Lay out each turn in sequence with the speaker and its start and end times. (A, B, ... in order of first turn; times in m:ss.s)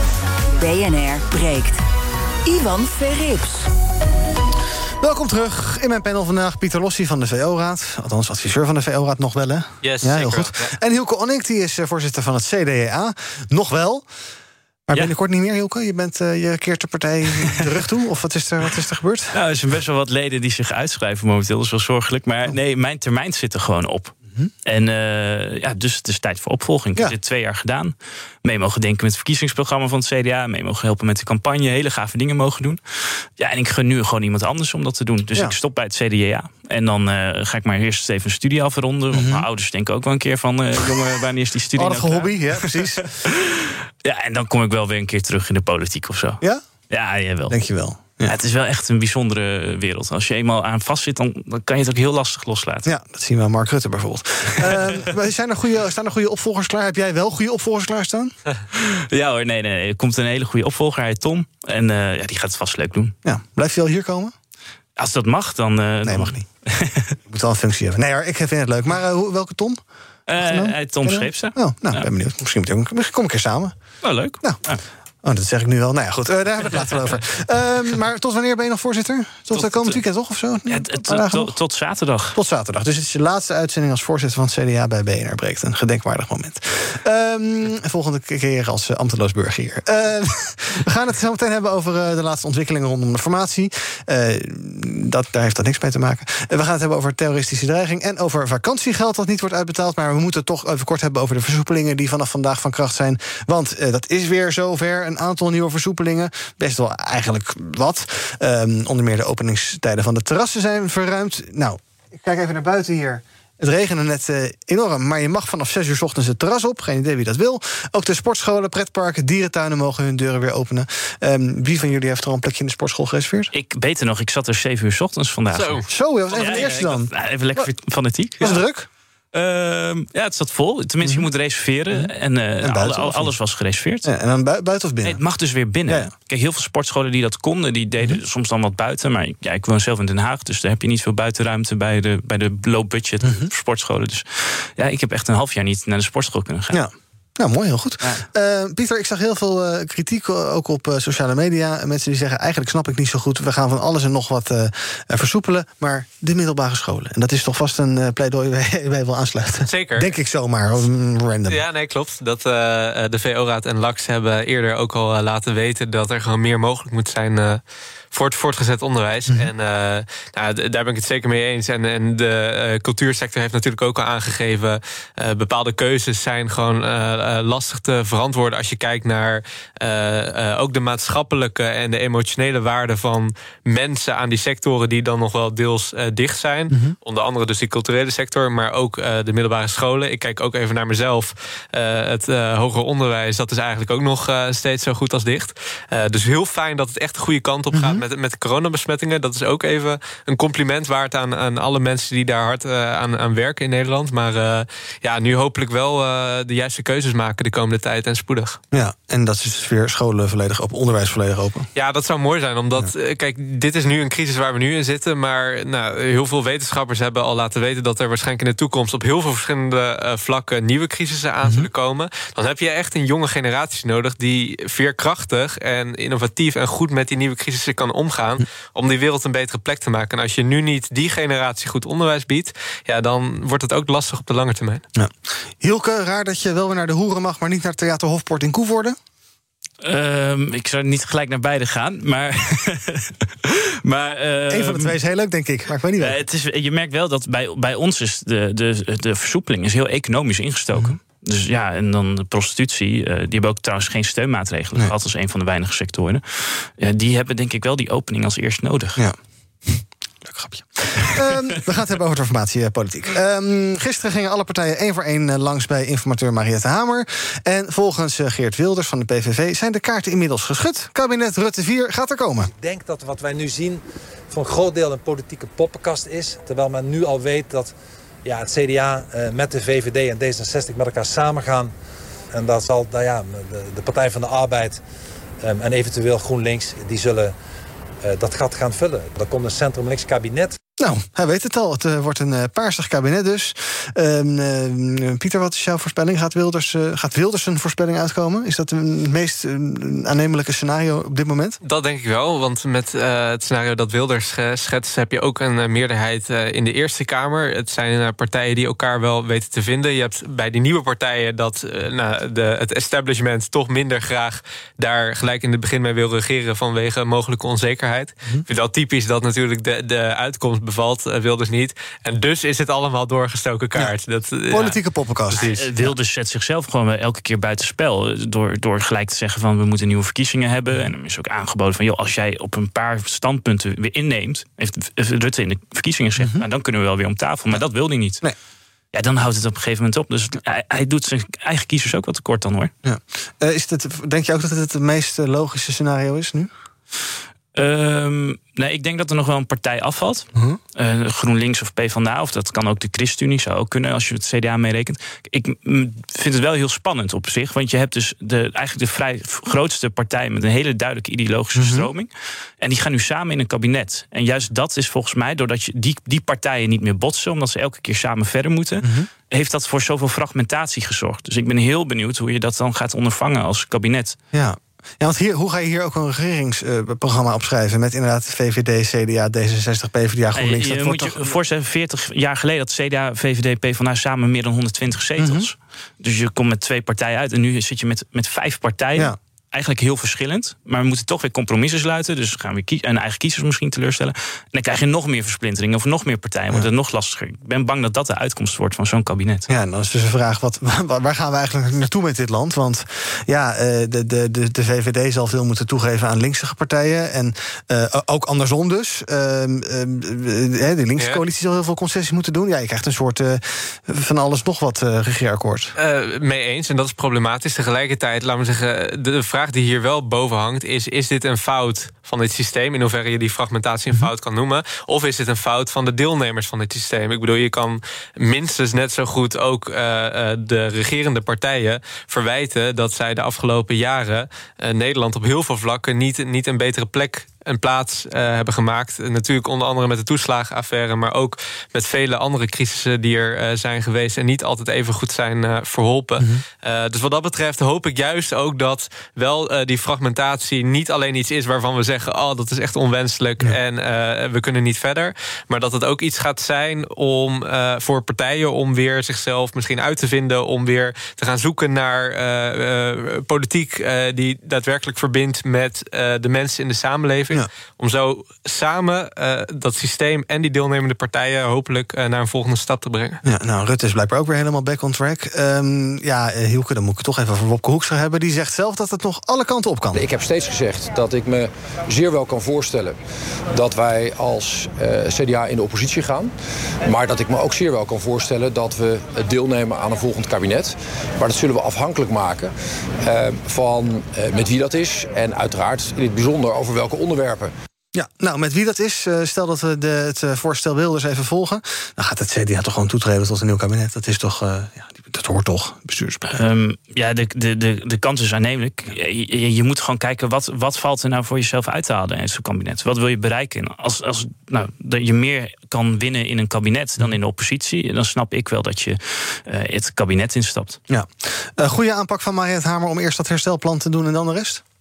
0:00.6-0:01.8 A
0:02.4-0:03.7 A
0:05.0-0:14.0 B
0:09.8-0:10.7 C
0:14.9-0:19.3 B
0:19.3-0:43.0 D
0:39.1-0:39.4 B
0:41.8-0:43.0 B
0:44.0-0:47.6 D
0:47.5-0:48.3 B
0:48.2-0:52.9 D
0:52.9-0:58.3 B
0:58.8-1:03.1 D
1:03.2-1:04.3 B
1:05.0-1:07.2 D
1:06.0-1:06.4 B
1:07.3-1:09.8 B
1:10.3-1:12.1 D
1:10.4-1:13.8 B
1:14.0-1:14.8 D
1:15.2-1:21.5 B
1:19.5-1:20.0 D
1:20.7-1:22.4 D
1:22.3-2:03.5 B
2:03.5-2:08.6 D
2:05.5-2:06.8 C
2:05.9-2:07.7 B
2:08.4-2:08.9 B
2:09.3-2:14.1 D
2:12.6-2:13.4 B
2:14.0-2:15.2 B
2:15.0-2:26.8 D
2:23.2-2:23.5 B
2:26.7-2:41.6 B
2:39.6-2:40.1 C
2:41.5-3:28.6 C
3:06.7-3:07.0 B
3:17.7-3:18.0 B
3:28.7-3:31.7 B
3:31.7-3:54.8 C
3:55.0-3:59.0 B
3:59.8-4:03.1 D
4:03.8-4:04.9 D
4:04.5-4:06.2 B
4:06.0-4:19.0 D
4:19.7-4:32.5 B
4:32.4-4:41.7 E
4:42.3-4:44.8 E
4:45.4-4:47.3 E
4:48.0-4:50.6 E
4:50.8-5:01.6 B
5:01.6-5:24.8 C
5:24.5-5:25.9 B
5:25.3-5:25.7 C
5:25.4-5:38.2 D
5:36.2-5:36.4 B
5:38.9-5:42.7 D
5:42.8-5:46.5 B
5:47.6-6:02.1 D
6:01.6-6:01.9 B
6:02.6-6:14.2 D
6:08.8-6:09.1 B
6:14.3-6:21.3 B
6:20.4-6:39.4 D
6:25.2-6:25.5 B
6:39.5-6:55.7 B
6:51.0-6:51.2 C
6:55.8-7:53.2 C
7:53.2-8:00.0 B
7:59.9-8:03.0 F
8:03.5-8:06.3 F
8:06.8-8:17.5 F
8:17.9-8:26.4 B
8:26.3-8:40.8 D
8:40.9-8:44.6 B